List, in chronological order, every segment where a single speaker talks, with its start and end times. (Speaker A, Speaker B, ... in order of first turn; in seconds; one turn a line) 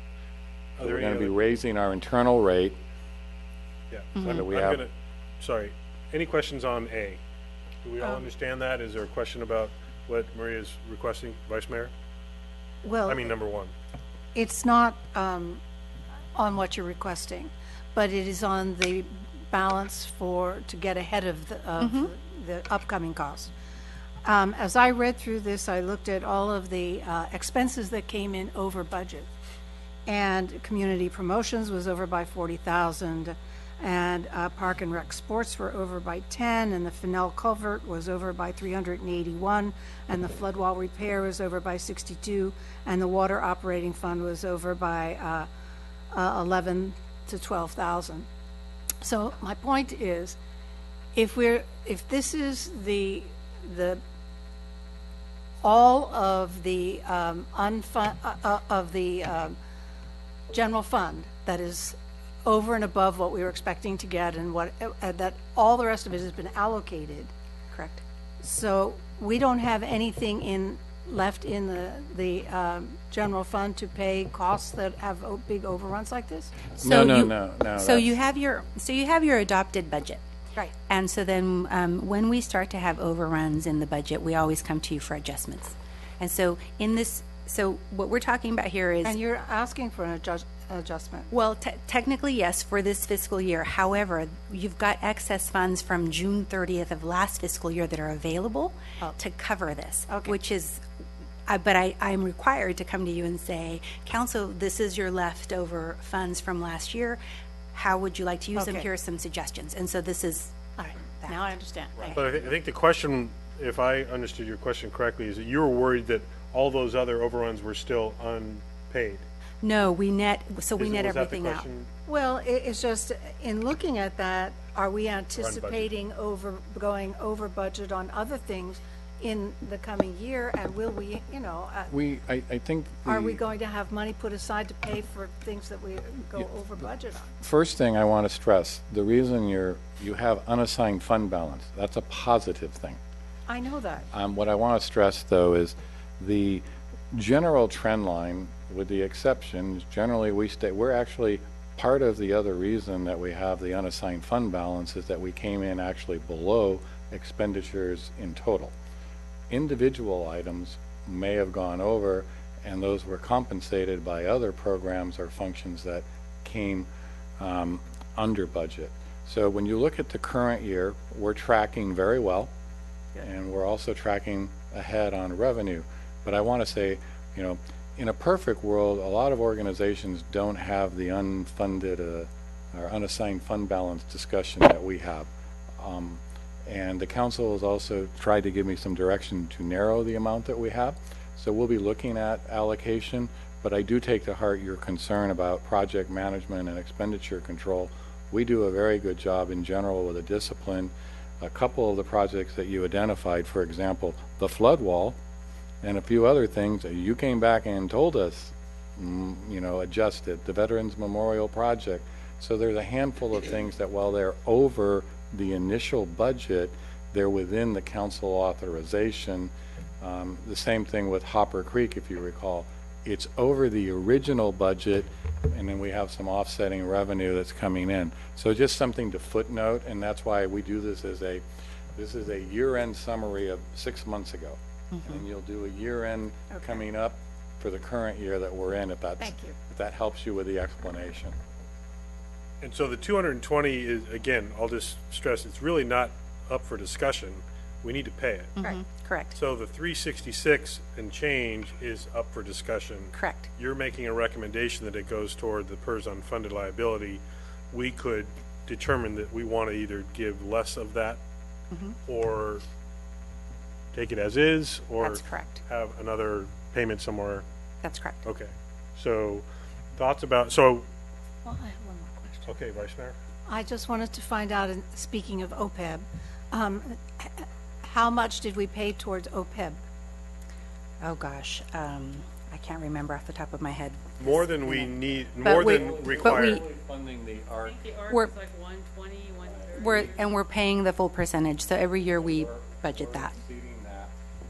Speaker A: 0.8-1.3
Speaker B: 0.8-2.8
Speaker A: 3.9-7.2
Speaker C: 4.2-4.4
Speaker B: 4.2-4.8
Speaker A: 7.8-11.9
Speaker D: 12.8-13.3
Speaker A: 13.1-13.7
Speaker D: 14.3-15.6
Speaker D: 16.4-23.5
Speaker C: 21.8-22.1
Speaker D: 24.2-29.3
Speaker D: 30.1-45.5
Speaker D: 46.1-48.3
Speaker D: 49.0-50.4
Speaker D: 51.1-54.0
Speaker D: 55.6-59.5
Speaker D: 60.5-67.3
Speaker C: 67.7-68.0
Speaker D: 68.4-76.6
Speaker B: 76.8-78.2
Speaker C: 76.8-80.2
Speaker C: 80.9-89.2
Speaker D: 89.0-91.3
Speaker C: 91.3-100.8
Speaker D: 100.1-100.4
Speaker C: 101.5-107.2
Speaker C: 107.7-111.4
Speaker D: 108.5-108.9
Speaker D: 110.8-112.3
Speaker A: 112.2-119.3
Speaker C: 119.6-121.7
Speaker A: 120.8-121.9
Speaker D: 122.1-131.9
Speaker A: 125.4-125.9
Speaker B: 131.9-133.4
Speaker D: 133.1-137.3
Speaker B: 137.4-143.0
Speaker D: 143.5-144.1
Speaker B: 144.1-158.7
Speaker B: 159.5-166.9
Speaker B: 167.4-172.5
Speaker B: 173.2-185.3
Speaker B: 185.8-205.2
Speaker B: 205.8-231.4
Speaker B: 231.9-241.3
Speaker C: 234.9-235.2
Speaker D: 239.2-239.5
Speaker A: 242.6-248.6
Speaker C: 248.6-249.4
Speaker A: 249.3-261.2
Speaker C: 253.1-253.5
Speaker C: 261.7-262.0
Speaker A: 262.1-262.6
Speaker A: 263.9-267.4
Speaker C: 265.0-265.6
Speaker C: 267.8-268.3
Speaker A: 268.2-270.9
Speaker D: 271.4-272.5
Speaker A: 272.5-273.2
Speaker D: 273.5-279.8
Speaker C: 281.0-284.0
Speaker A: 284.2-286.6
Speaker C: 284.6-286.6
Speaker B: 285.0-288.0
Speaker E: 287.6-290.2
Speaker C: 288.1-288.4
Speaker B: 289.4-290.1
Speaker C: 289.8-293.3
Speaker B: 292.1-294.2